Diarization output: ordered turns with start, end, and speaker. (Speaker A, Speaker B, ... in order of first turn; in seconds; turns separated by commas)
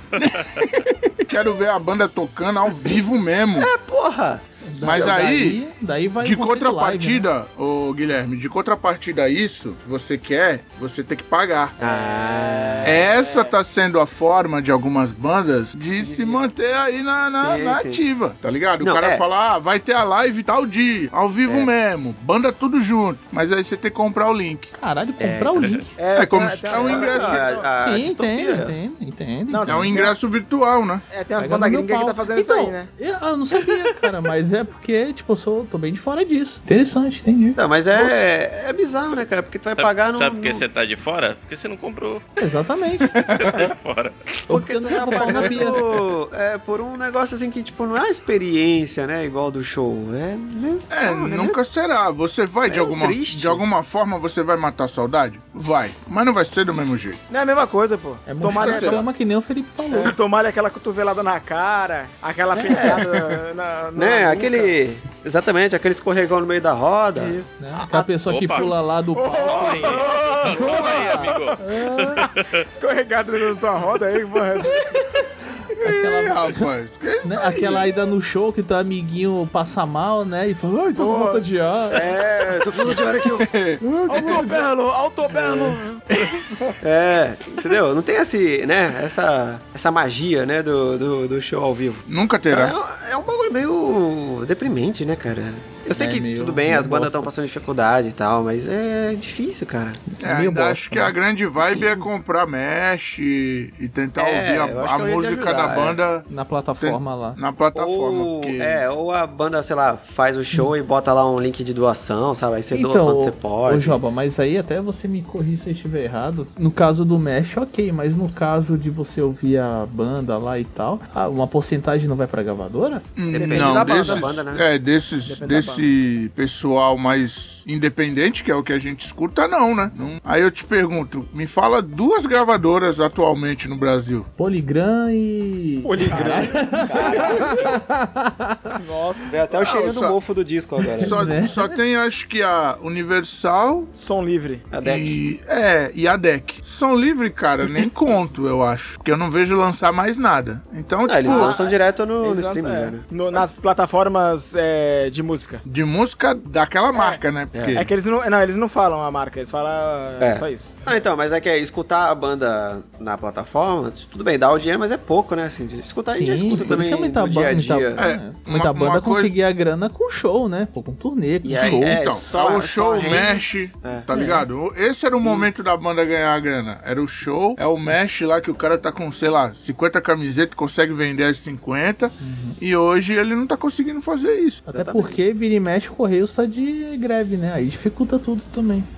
Speaker A: 0.2-3.7, Speaker B: 0.4-0.7, Speaker C: 3.5-5.3, Speaker D: 4.7-7.3, Speaker A: 4.8-5.6, Speaker A: 6.2-11.8, Speaker C: 11.8-13.1, Speaker E: 11.8-13.6, Speaker A: 12.8-24.7, Speaker E: 15.9-16.5, Speaker C: 17.4-18.0, Speaker C: 18.8-19.2, Speaker D: 24.8-25.9, Speaker C: 25.2-25.7, Speaker B: 25.6-25.8, Speaker E: 26.0-27.7, Speaker A: 26.1-27.4, Speaker C: 26.7-28.8, Speaker D: 27.8-30.1, Speaker E: 29.5-30.1, Speaker A: 29.7-31.0, Speaker E: 31.1-32.9, Speaker D: 31.4-37.6, Speaker C: 37.6-40.6, Speaker B: 39.8-42.4, Speaker D: 42.4-43.4, Speaker B: 43.2-44.2, Speaker A: 43.3-43.7, Speaker C: 44.5-51.6, Speaker D: 44.5-45.8, Speaker A: 50.9-57.2, Speaker C: 52.7-53.6, Speaker E: 57.3-59.1, Speaker D: 58.3-60.1, Speaker A: 58.5-59.0, Speaker E: 59.9-64.7, Speaker C: 62.6-63.1, Speaker C: 64.0-67.4, Speaker E: 67.2-71.8, Speaker D: 67.6-70.0, Speaker B: 68.3-68.7, Speaker B: 69.3-72.6, Speaker D: 71.6-72.2, Speaker E: 72.7-75.1, Speaker D: 75.7-76.7, Speaker A: 75.8-77.9, Speaker D: 77.2-82.0, Speaker E: 80.9-81.4, Speaker C: 81.9-83.5, Speaker A: 83.4-84.5, Speaker D: 83.8-84.4, Speaker E: 84.1-86.8, Speaker A: 86.1-86.4, Speaker C: 86.8-100.0, Speaker A: 92.1-92.8, Speaker D: 95.9-97.3, Speaker D: 100.1-101.2, Speaker A: 100.2-106.3, Speaker D: 101.7-102.0, Speaker C: 104.2-106.0, Speaker D: 106.3-107.4, Speaker A: 106.8-108.8, Speaker C: 107.7-114.0, Speaker D: 112.7-123.9, Speaker A: 123.2-134.3, Speaker C: 123.3-124.7, Speaker E: 125.3-125.9, Speaker D: 134.4-138.8, Speaker C: 135.8-137.7, Speaker E: 136.1-137.7, Speaker E: 138.8-139.6, Speaker C: 139.3-141.2, Speaker A: 139.6-140.2, Speaker D: 141.0-141.8, Speaker A: 141.0-143.9, Speaker E: 143.9-144.7, Speaker C: 144.7-145.2, Speaker A: 144.8-151.6, Speaker C: 151.1-153.5, Speaker E: 151.3-155.6, Speaker A: 155.7-157.9, Speaker E: 156.9-157.2, Speaker C: 157.5-157.8, Speaker E: 157.7-161.0, Speaker C: 160.2-168.0, Speaker D: 166.1-172.0, Speaker A: 168.0-169.3, Speaker C: 171.4-174.1, Speaker A: 171.5-184.6, Speaker D: 174.1-174.5, Speaker C: 175.2-175.5, Speaker D: 182.2-182.6, Speaker C: 184.7-185.2, Speaker D: 184.7-188.9